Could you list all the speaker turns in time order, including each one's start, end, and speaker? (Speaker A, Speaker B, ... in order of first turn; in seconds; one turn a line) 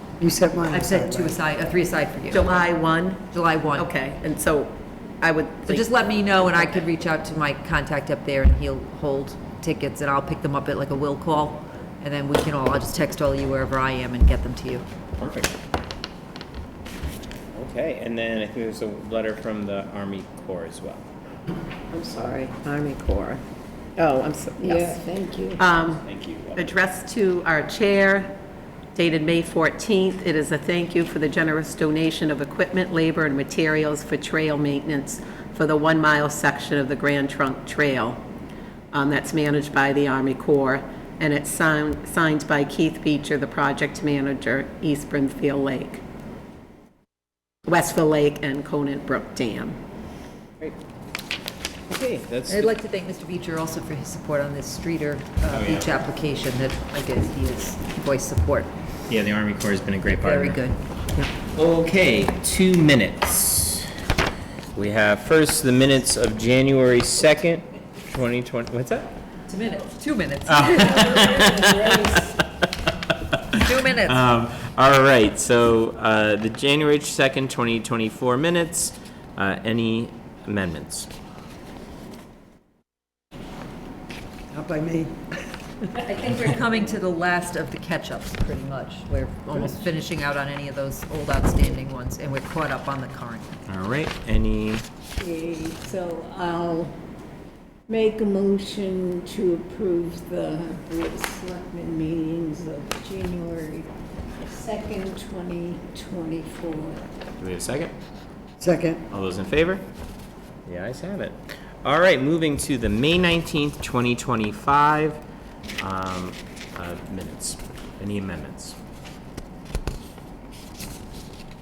Speaker A: 0.2-1.4
Speaker B: 0.7-2.6
Speaker C: 2.3-3.2
Speaker B: 3.3-3.9
Speaker C: 3.8-5.9
Speaker B: 5.7-14.9
Speaker D: 15.2-15.5
Speaker D: 17.5-21.1
Speaker C: 21.9-23.4
Speaker C: 24.0-25.0
Speaker E: 24.6-25.6
Speaker C: 25.6-28.3
Speaker D: 25.8-26.8
Speaker C: 28.9-38.2
Speaker C: 38.9-46.0
Speaker C: 47.6-49.8
Speaker D: 51.9-52.8
Speaker B: 52.5-58.7
Speaker D: 55.5-56.0
Speaker D: 59.1-60.6
Speaker B: 60.1-60.8
Speaker D: 61.4-63.9
Speaker D: 64.7-69.1
Speaker B: 69.5-71.0
Speaker D: 70.5-81.1
Speaker E: 70.8-72.3
Speaker B: 73.5-74.2
Speaker A: 84.5-85.3
Speaker B: 86.0-93.6
Speaker D: 93.7-94.9
Speaker E: 95.2-97.0
Speaker E: 97.9-107.1
Speaker D: 107.4-107.9
Speaker A: 108.6-109.0
Speaker D: 109.1-109.8
Speaker D: 110.7-115.2
Speaker D: 115.8-118.8